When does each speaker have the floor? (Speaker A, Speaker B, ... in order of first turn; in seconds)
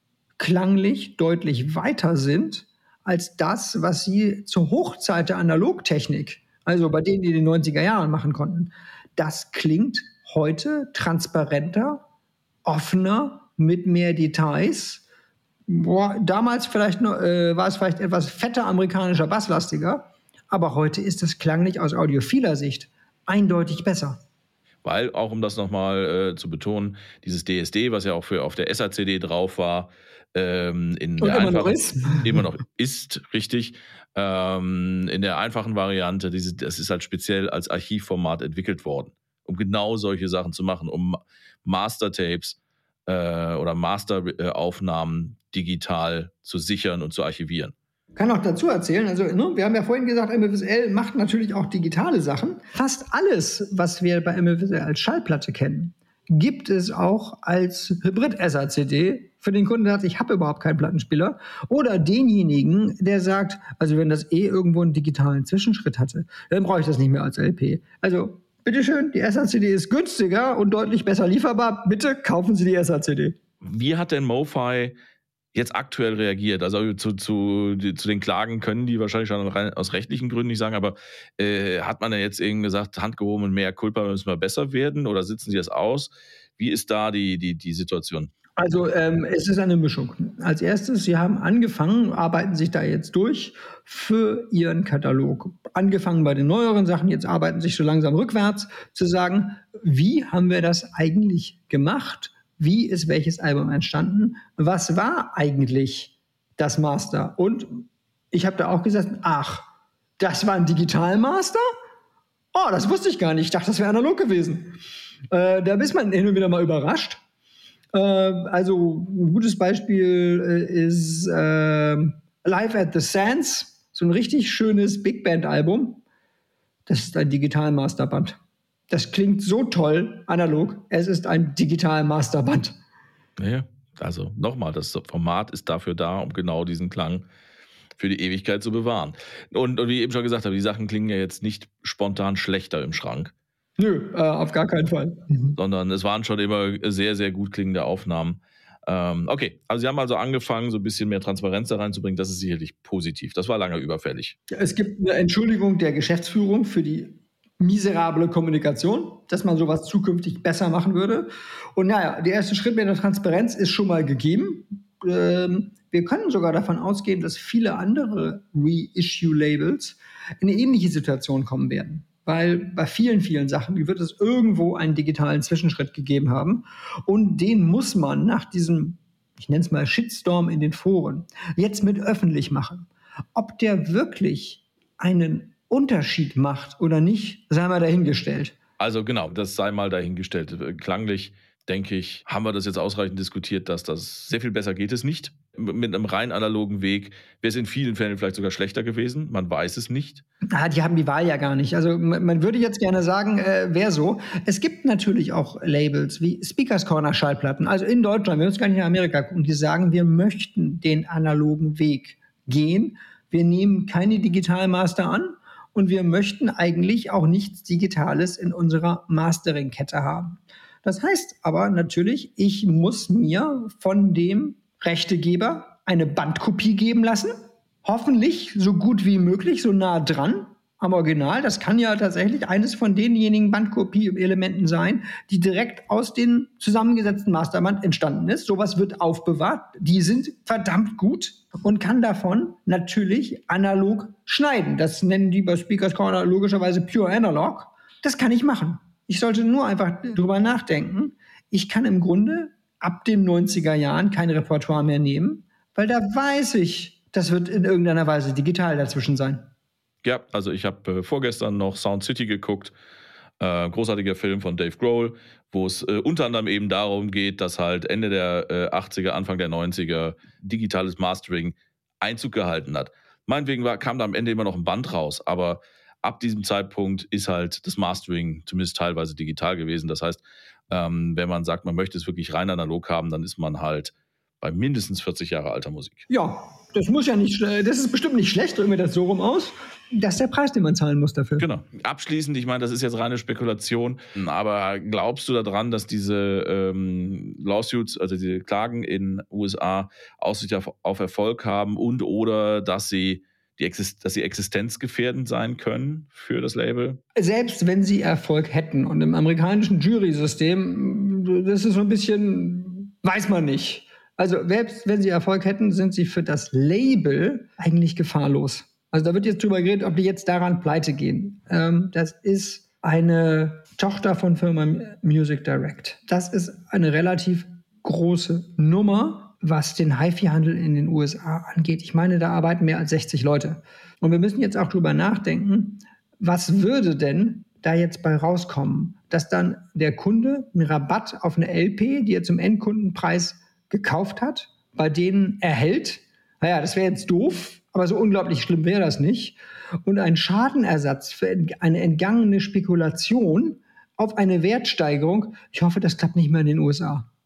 Speaker A: 0.4-12.1, 12.7-15.0, 15.7-24.2, 31.2-32.4, 48.2-73.4, 88.6-109.7, 110.2-111.6, 112.5-114.8, 115.3-117.2, 117.9-126.0, 126.9-128.4, 128.9-132.8, 143.8-145.6, 154.5-188.6, 200.5-259.5, 286.1-291.5, 307.1-357.1
Speaker B: 24.8-47.7, 73.6-75.0, 75.5-88.3, 133.4-137.3, 138.0-143.3, 145.6-154.4, 188.8-200.2, 260.0-262.7, 263.4-286.1, 291.4-307.0